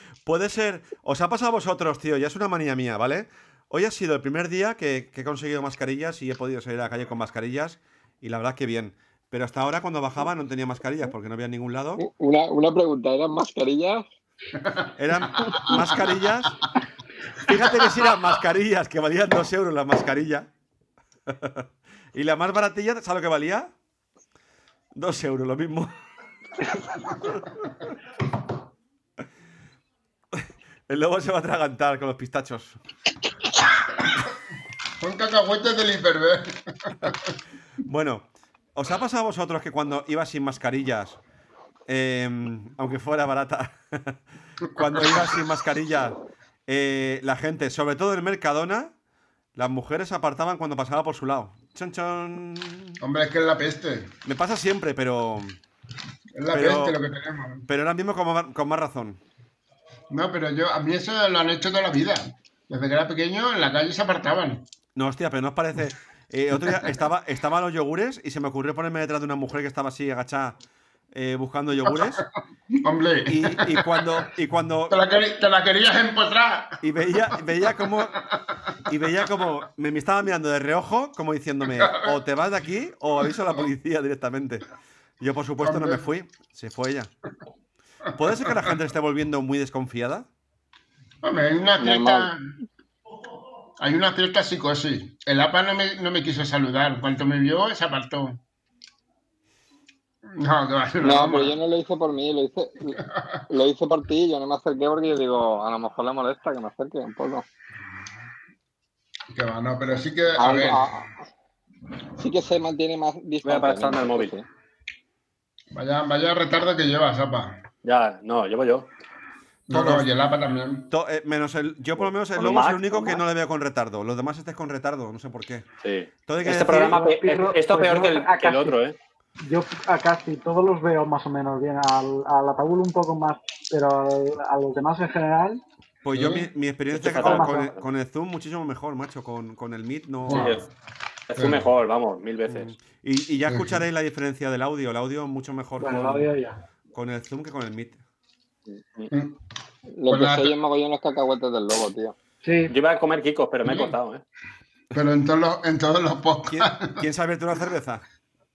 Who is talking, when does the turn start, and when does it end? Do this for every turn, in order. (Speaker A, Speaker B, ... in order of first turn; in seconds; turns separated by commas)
Speaker A: 0.2-12.0, Speaker B: 12.0-14.1, Speaker C: 14.6-16.0, Speaker A: 15.0-16.6, Speaker A: 17.4-20.5, Speaker A: 21.3-23.7, Speaker A: 24.9-25.9, Speaker A: 30.3-32.8, Speaker C: 35.0-37.3, Speaker A: 37.8-41.2, Speaker A: 41.9-44.2, Speaker A: 44.7-48.9, Speaker C: 44.8-45.4, Speaker A: 49.5-53.0, Speaker C: 53.0-54.1, Speaker A: 54.2-55.6, Speaker C: 56.4-57.6, Speaker A: 56.5-57.0, Speaker A: 57.7-59.2, Speaker C: 60.1-64.6, Speaker A: 64.9-70.6, Speaker A: 71.1-72.2, Speaker C: 71.9-72.2, Speaker C: 72.8-74.1, Speaker A: 73.2-75.0, Speaker C: 74.9-77.9, Speaker A: 76.8-78.2, Speaker A: 78.9-84.6, Speaker C: 81.7-82.1, Speaker A: 85.2-87.1, Speaker C: 85.6-86.0, Speaker A: 88.2-90.3, Speaker C: 88.2-88.7, Speaker C: 91.2-92.4, Speaker B: 91.8-92.3, Speaker C: 93.8-98.4, Speaker C: 100.3-101.5, Speaker B: 101.0-103.0, Speaker C: 103.0-103.4, Speaker B: 103.5-107.4, Speaker C: 109.3-111.0, Speaker B: 110.4-111.1, Speaker B: 112.2-114.5, Speaker D: 113.4-114.3, Speaker C: 115.7-117.6, Speaker D: 117.8-118.9, Speaker A: 119.7-120.1, Speaker C: 119.7-120.9, Speaker A: 120.9-125.7, Speaker D: 122.3-123.2, Speaker D: 125.8-128.9, Speaker A: 126.3-127.0, Speaker E: 126.4-128.8, Speaker E: 129.4-135.6, Speaker A: 136.0-140.6, Speaker C: 136.1-136.5, Speaker D: 136.9-137.8, Speaker E: 137.1-137.7, Speaker C: 140.2-140.7, Speaker D: 140.3-140.6, Speaker D: 141.3-142.7, Speaker C: 141.3-141.7, Speaker A: 142.5-146.3, Speaker C: 143.4-143.8, Speaker E: 145.8-146.6, Speaker A: 146.9-148.0, Speaker C: 149.1-149.4, Speaker B: 149.9-152.1, Speaker C: 150.1-150.6, Speaker E: 152.4-152.7, Speaker D: 152.7-154.2, Speaker C: 154.9-157.1, Speaker A: 156.4-158.0